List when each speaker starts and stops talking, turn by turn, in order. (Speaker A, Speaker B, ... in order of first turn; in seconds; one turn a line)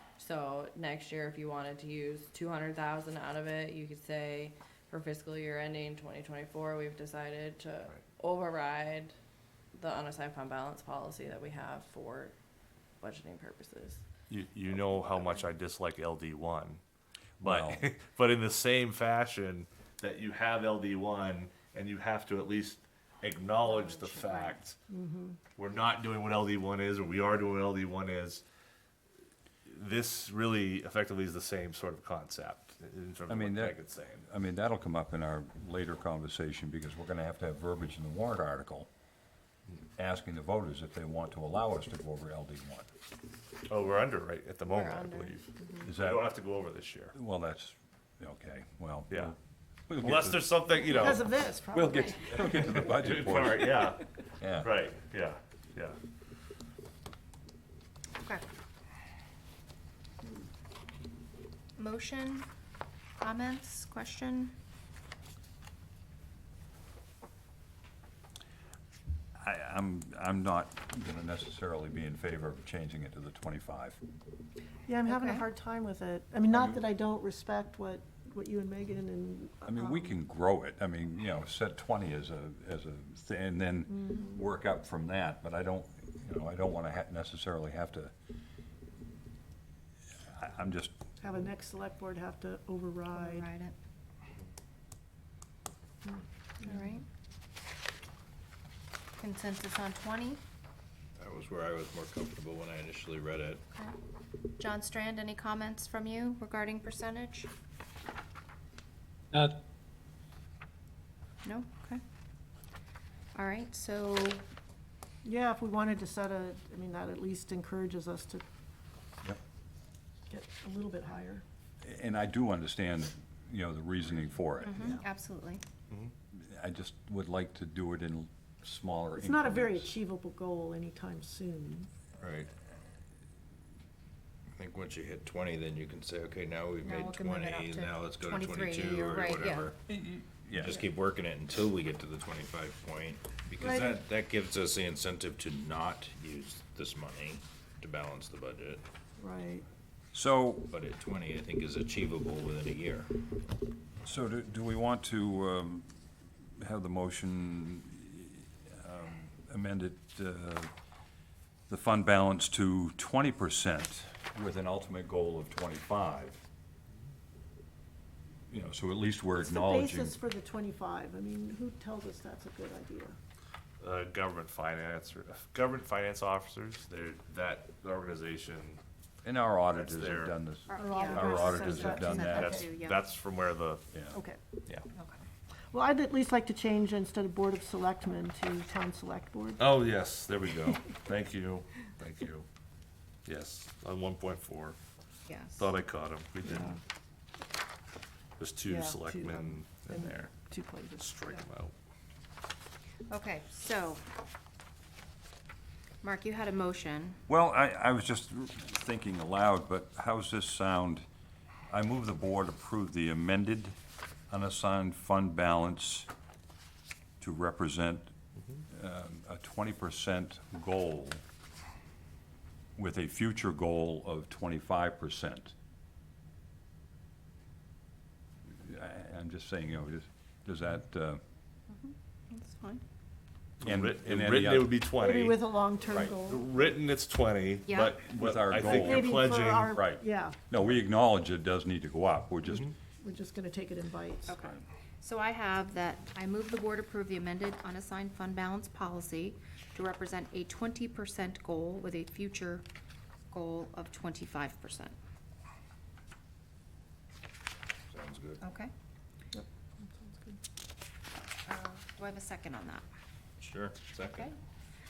Speaker A: 0.2-9.1
Speaker A: 9.7-12.3
Speaker A: 13.0-14.0
Speaker B: 14.3-16.8
Speaker B: 17.4-24.8
Speaker C: 17.4-17.8
Speaker D: 23.7-24.6
Speaker E: 24.9-25.4
Speaker B: 25.6-28.4
Speaker B: 29.7-34.2
Speaker C: 33.3-38.9
Speaker C: 40.0-42.9
Speaker B: 43.7-47.1
Speaker D: 44.7-45.4
Speaker C: 45.8-46.3
Speaker C: 47.1-49.4
Speaker B: 49.1-49.3
Speaker C: 49.9-54.7
Speaker B: 50.0-51.3
Speaker E: 50.9-52.5
Speaker B: 52.4-56.0
Speaker D: 61.8-62.5
Speaker D: 63.2-64.5
Speaker C: 69.4-74.0
Speaker E: 74.9-80.2
Speaker D: 75.1-75.4
Speaker C: 76.5-76.8
Speaker C: 79.7-88.1
Speaker E: 84.0-84.4
Speaker C: 90.3-91.0
Speaker E: 91.2-93.5
Speaker D: 93.1-93.7
Speaker E: 96.1-96.9
Speaker D: 96.6-97.0
Speaker D: 99.2-100.4
Speaker F: 101.2-103.6
Speaker D: 104.6-107.5
Speaker D: 111.4-112.0
Speaker D: 113.3-114.4
Speaker E: 115.2-118.4
Speaker E: 120.3-121.4
Speaker C: 121.8-124.9
Speaker D: 124.6-125.6
Speaker E: 124.8-125.1
Speaker C: 126.3-129.9
Speaker E: 129.2-131.9
Speaker F: 132.2-132.5
Speaker F: 134.5-139.8
Speaker D: 136.8-139.7
Speaker C: 139.9-140.8
Speaker F: 140.6-148.8
Speaker E: 143.6-144.0
Speaker E: 149.2-149.7
Speaker C: 150.1-150.7
Speaker F: 150.7-153.1
Speaker C: 154.0-156.0
Speaker C: 156.6-160.7
Speaker C: 161.7-166.4
Speaker C: 168.5-170.2
Speaker E: 169.4-173.2
Speaker B: 173.8-178.8
Speaker C: 179.2-182.6
Speaker B: 179.7-180.3
Speaker D: 180.7-183.0
Speaker E: 180.8-182.7
Speaker B: 181.7-183.8
Speaker E: 184.1-184.4
Speaker D: 184.9-185.2
Speaker E: 185.7-189.6
Speaker B: 189.6-192.5
Speaker B: 193.3-194.8
Speaker D: 195.3-195.6
Speaker B: 195.6-196.8
Speaker E: 196.5-196.8
Speaker B: 198.4-200.3
Speaker E: 198.7-201.4
Speaker B: 201.0-201.7
Speaker D: 203.1-204.0
Speaker D: 206.0-207.2
Speaker C: 207.3-211.1
Speaker C: 211.7-213.8
Speaker C: 214.3-216.1
Speaker C: 217.2-218.1
Speaker C: 218.7-221.2
Speaker C: 222.8-225.5
Speaker C: 228.5-231.2
Speaker D: 231.7-232.8
Speaker B: 233.6-235.4
Speaker C: 233.6-234.7
Speaker E: 235.0-236.6
Speaker B: 236.2-239.9
Speaker D: 237.7-238.0
Speaker C: 238.1-242.7
Speaker E: 238.6-240.4
Speaker E: 243.0-244.4
Speaker D: 244.3-252.6
Speaker D: 253.3-254.9
Speaker F: 257.9-258.4
Speaker D: 258.4-258.7
Speaker E: 259.3-260.4
Speaker D: 261.5-262.8
Speaker F: 263.4-264.3